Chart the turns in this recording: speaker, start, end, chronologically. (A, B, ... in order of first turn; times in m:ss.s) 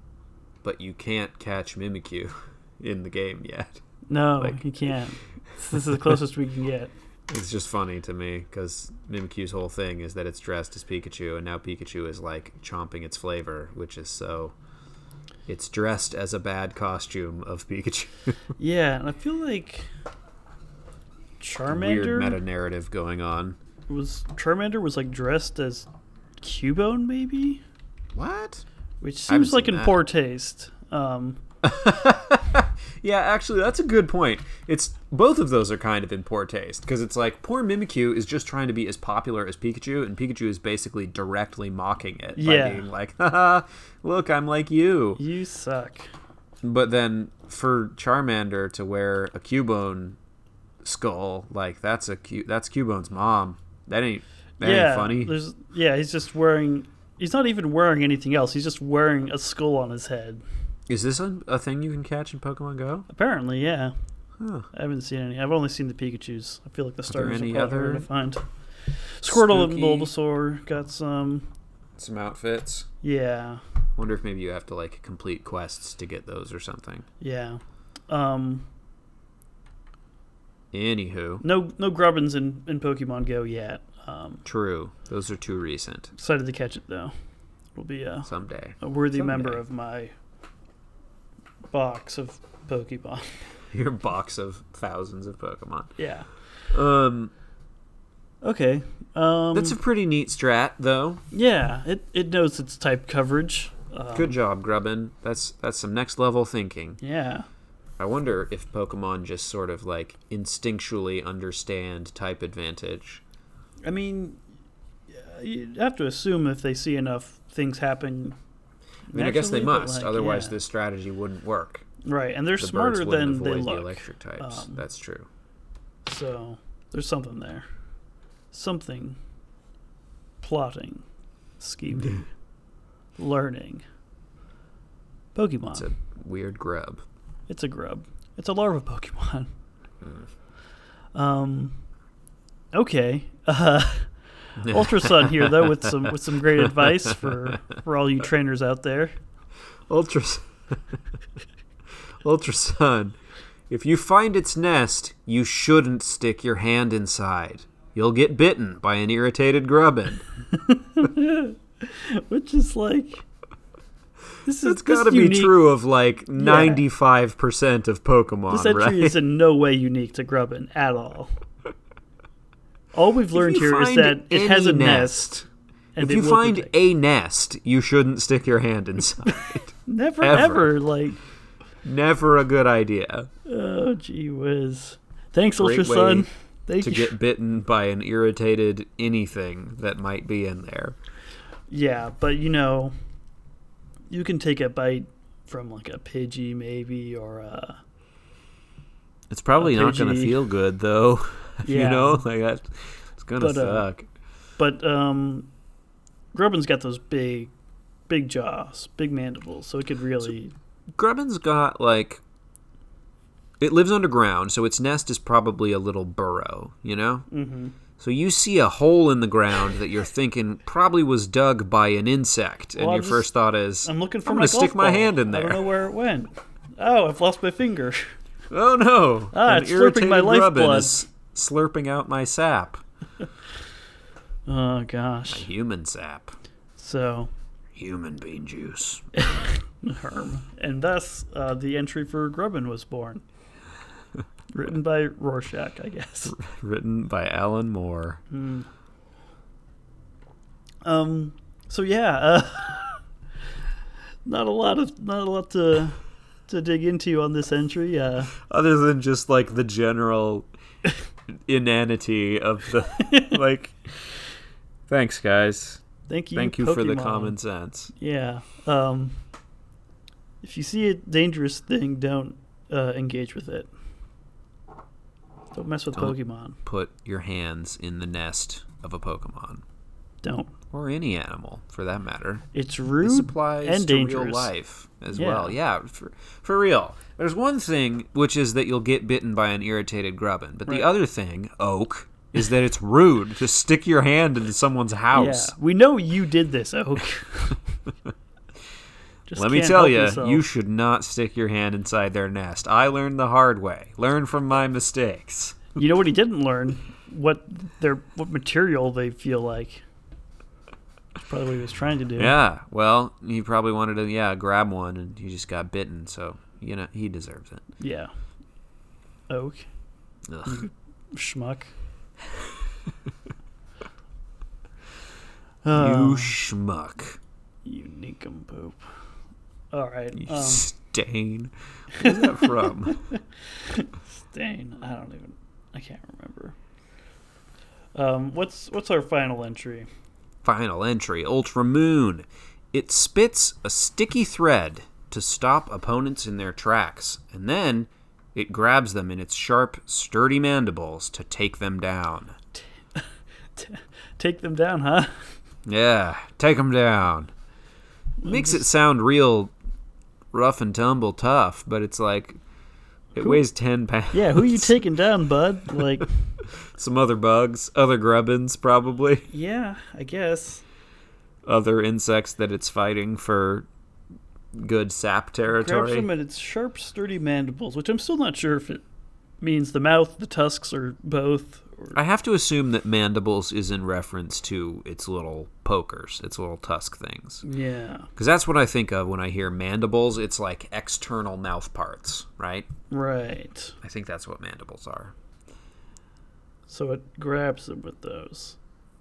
0:00.6-0:03.8 A
0:04.1-0:06.9 B
0:04.4-0:05.0 A
0:05.7-0:06.1 A
0:07.3-0:14.5 A
0:15.5-0:18.4 A
0:18.6-0:19.9 B
0:21.4-0:22.4 B
0:21.7-0:23.6 A
0:23.9-0:25.9 B
0:26.4-0:27.6 B
0:28.1-0:28.6 A
0:29.0-0:31.4 B
0:29.3-0:30.0 A
0:31.6-0:45.2 A
0:42.4-0:42.9 B
0:45.2-0:46.1 B
0:46.6-0:50.2 A
0:50.8-0:55.3 A
0:54.6-1:00.4 B
1:00.9-1:03.1 A
1:03.1-1:03.9 B
1:04.4-1:04.7 A
1:04.7-1:11.5 B
1:07.1-1:08.1 A
1:09.3-1:10.1 A
1:12.0-1:12.9 A
1:13.0-1:13.6 B
1:14.0-1:17.0 A
1:17.2-1:18.7 B
1:20.7-1:21.4 A
1:21.4-1:24.4 B
1:24.4-1:26.1 A
1:26.1-1:27.1 B
1:27.7-1:30.1 B
1:28.2-1:29.6 A
1:31.7-1:33.4 B
1:33.7-1:35.9 A
1:36.0-1:36.3 B
1:36.7-1:37.3 A
1:38.4-1:39.8 B
1:39.5-1:41.2 A
1:41.3-1:44.4 B
1:44.1-1:47.0 A
1:47.0-1:47.5 B
1:48.0-1:53.2 A
1:53.8-1:54.4 B
1:55.1-1:58.4 B
1:59.1-2:00.6 B
1:59.1-2:01.8 A
2:02.0-2:04.8 B
2:02.6-2:05.3 A
2:06.0-2:07.6 B
2:08.5-2:09.2 B
2:10.4-2:11.0 B
2:11.6-2:12.3 B
2:13.2-2:13.8 B
2:15.3-2:15.9 B
2:15.7-2:17.0 A
2:17.5-2:19.5 B
2:21.1-2:21.8 B
2:22.7-2:29.2 B
2:24.6-2:27.5 A
2:29.9-2:31.0 A
2:32.2-2:33.2 A
2:33.7-2:40.2 A
2:40.5-2:43.2 B
2:44.4-2:45.5 B
2:44.6-2:49.2 A
2:46.4-2:46.8 B
2:48.5-2:51.3 B
2:52.9-2:55.4 B
2:53.3-2:55.5 A
2:56.0-2:56.7 B
2:56.0-3:00.7 A
2:59.8-3:01.2 B
3:01.8-3:03.3 A
3:03.4-3:07.1 B
3:05.6-3:06.3 A
3:06.8-3:11.0 A
3:11.7-3:12.9 B
3:14.1-3:17.8 B
3:19.3-3:24.1 A
3:19.6-3:20.4 B
3:21.6-3:22.2 B
3:23.4-3:23.9 B
3:24.6-3:25.5 B
3:26.3-3:27.5 B
3:28.1-3:30.5 B
3:30.9-3:32.2 A
3:33.6-3:37.2 A
3:37.3-3:37.7 B
3:38.0-3:45.7 A
3:42.8-3:43.3 B
3:43.8-3:48.1 B
3:48.5-3:52.8 A
3:49.3-3:51.0 B
3:54.5-3:55.5 B
3:55.3-3:56.3 A
3:56.8-3:57.3 B
3:57.7-3:59.5 A
3:59.2-4:03.2 B
4:04.5-4:06.4 B
4:06.3-4:08.2 A
4:08.3-4:08.7 B
4:10.8-4:13.0 B
4:14.2-4:18.3 B
4:18.3-4:20.5 A
4:21.5-4:24.1 A
4:23.0-4:23.4 B
4:24.9-4:25.8 A
4:26.1-4:27.4 B
4:26.3-4:27.9 A
4:28.0-4:29.2 B
4:30.4-4:33.7 B
4:35.5-4:36.6 B
4:35.9-4:39.6 A
4:40.2-4:40.5 B
4:40.7-4:42.4 A
4:42.5-4:44.5 B
4:43.0-4:55.5 A
4:45.1-4:45.6 B
4:55.1-4:57.6 B
4:59.3-5:00.4 B
4:59.3-5:05.7 A
5:05.7-5:09.8 B
5:11.2-5:12.3 B
5:12.2-5:17.6 A
5:17.8-5:18.1 B
5:19.3-5:19.7 B
5:20.3-5:20.7 A
5:20.4-5:21.7 B
5:25.6-5:26.3 B
5:25.7-5:27.2 A
5:27.6-5:28.8 B
5:29.7-5:30.7 B
5:30.2-5:33.0 A
5:32.0-5:36.6 B
5:37.9-5:39.9 B
5:40.4-5:52.3 A
5:52.9-5:55.3 B
5:55.6-5:57.3 A
5:58.2-5:58.6 B
5:58.2-5:59.5 A
6:00.3-6:02.4 A
6:03.1-6:04.8 A
6:04.1-6:06.2 B
6:06.4-6:09.3 A
6:09.3-6:10.6 B
6:11.4-6:13.7 A
6:14.5-6:16.1 A
6:15.5-6:18.8 B
6:19.4-6:22.0 B
6:21.9-6:27.4 A
6:27.4-6:28.1 B
6:28.2-6:32.7 A
6:32.9-6:33.8 B
6:33.8-6:35.1 A
6:36.7-6:38.6 B